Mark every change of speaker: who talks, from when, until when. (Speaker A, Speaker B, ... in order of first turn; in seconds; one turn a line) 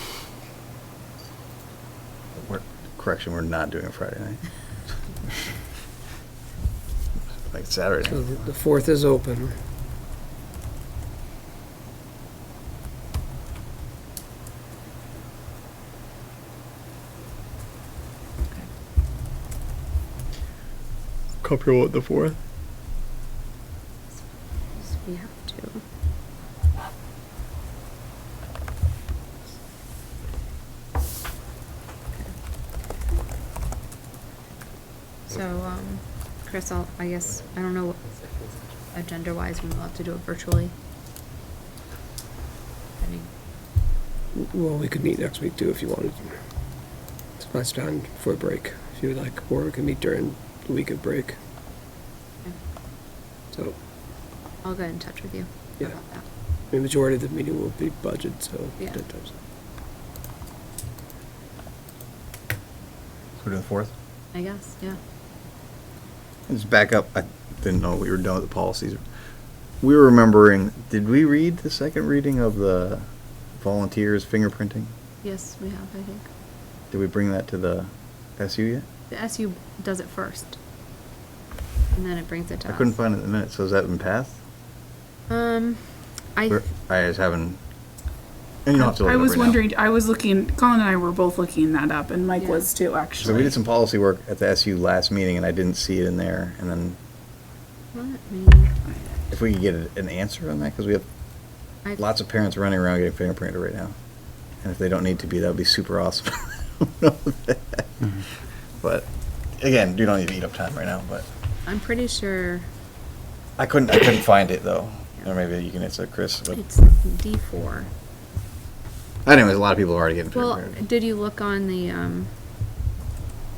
Speaker A: 2.4-4.5
Speaker A: 7.5-8.3
Speaker B: 8.0-9.5
Speaker C: 24.8-25.8
Speaker C: 35.3-38.1
Speaker C: 38.9-40.7
Speaker C: 43.0-43.3
Speaker B: 44.3-46.3
Speaker B: 47.4-51.4
Speaker C: 54.6-56.2
Speaker B: 56.7-59.3
Speaker A: 63.4-63.9
Speaker C: 64.3-65.0
Speaker A: 66.5-69.0
Speaker A: 69.8-74.9
Speaker C: 75.2-76.3
Speaker A: 76.9-78.8
Speaker C: 79.1-80.6
Speaker C: 82.0-83.0
Speaker A: 82.7-84.4
Speaker C: 85.3-85.8
Speaker C: 86.4-86.6
Speaker A: 86.5-87.6
Speaker A: 88.7-89.6
Speaker D: 88.8-93.5
Speaker C: 92.4-92.7
Speaker A: 93.2-97.0
Speaker C: 97.9-99.2
Speaker A: 99.3-101.1
Speaker A: 102.0-104.0
Speaker A: 104.6-107.9
Speaker A: 108.8-109.1
Speaker A: 109.6-111.3
Speaker C: 111.7-112.7
Speaker A: 113.6-116.6
Speaker C: 116.5-117.9
Speaker A: 119.3-120.8
Speaker C: 120.3-122.3